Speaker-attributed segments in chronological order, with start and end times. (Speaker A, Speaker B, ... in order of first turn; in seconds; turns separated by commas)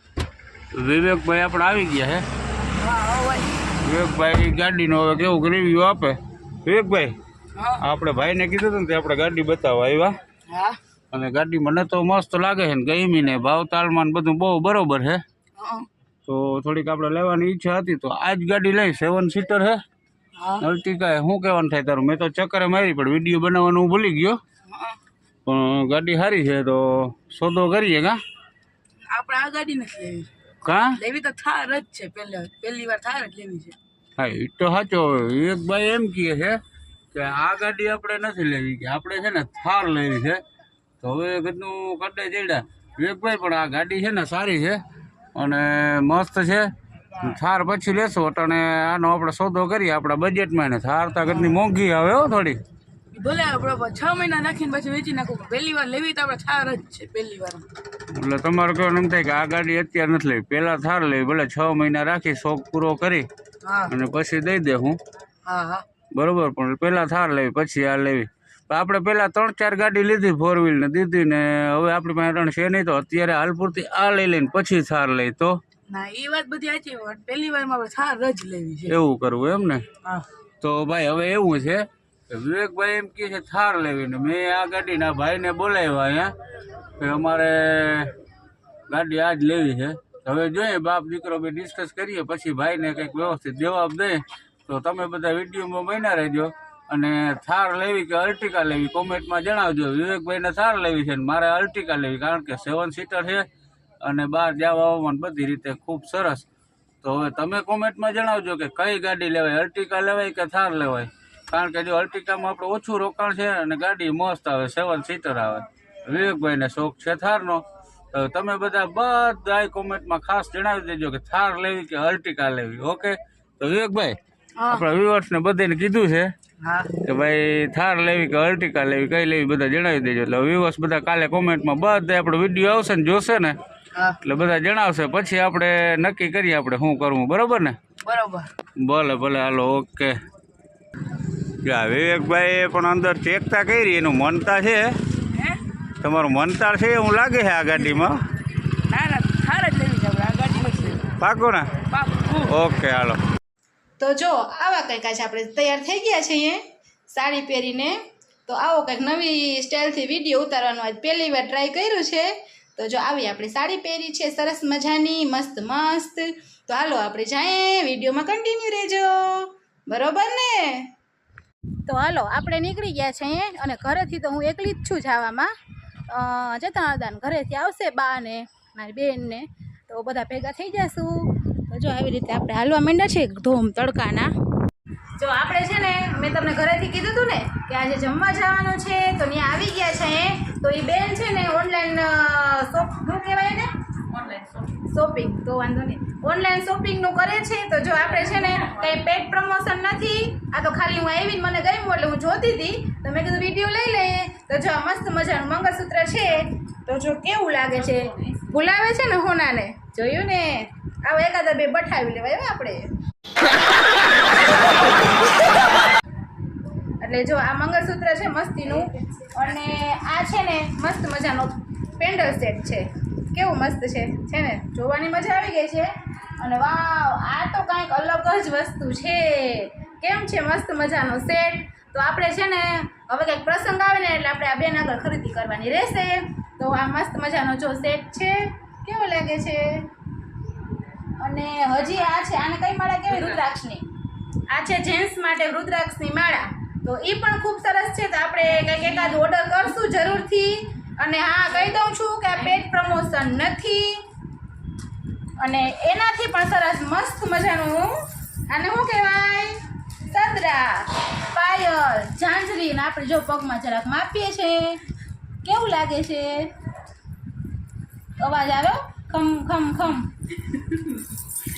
Speaker A: 0.7-2.2, Speaker B: 2.8-3.5, Speaker A: 3.8-7.2, Speaker B: 7.6-7.8, Speaker A: 7.8-10.2, Speaker B: 10.5-10.8, Speaker A: 11.1-15.2, Speaker B: 15.6-15.9, Speaker A: 16.3-19.8, Speaker B: 20.4-20.6, Speaker A: 20.6-24.4, Speaker B: 24.7-25.0, Speaker A: 25.5-28.2, Speaker B: 29.1-30.3, Speaker A: 30.6-31.0, Speaker B: 31.0-33.8, Speaker A: 34.2-36.6, Speaker A: 37.1-40.4, Speaker A: 41.0-44.8, Speaker A: 45.4-52.6, Speaker B: 53.1-57.7, Speaker A: 58.1-63.3, Speaker B: 63.6-63.9, Speaker A: 63.9-65.0, Speaker B: 65.5-65.8, Speaker A: 66.2-75.6, Speaker B: 75.9-79.0, Speaker A: 78.9-79.8, Speaker A: 80.6-86.3, Speaker A: 87.0-88.1, Speaker A: 88.9-103.5, Speaker A: 104.0-106.5, Speaker A: 107.0-124.2, Speaker A: 124.7-126.3, Speaker B: 126.6-126.9, Speaker A: 127.0-133.6, Speaker A: 134.2-137.8, Speaker B: 138.1-138.5, Speaker A: 138.8-140.2, Speaker A: 141.6-145.0, Speaker A: 146.0-148.2, Speaker B: 148.9-151.1, Speaker A: 151.2-151.7, Speaker B: 151.9-152.5, Speaker A: 152.5-153.2, Speaker C: 154.0-170.9, Speaker C: 171.9-175.5, Speaker C: 176.1-184.3, Speaker C: 185.2-193.7, Speaker C: 194.6-212.9, Speaker C: 217.0-239.9, Speaker C: 241.2-243.9, Speaker C: 244.5-254.0, Speaker C: 255.4-264.8, Speaker C: 265.4-266.5, Speaker C: 268.2-270.1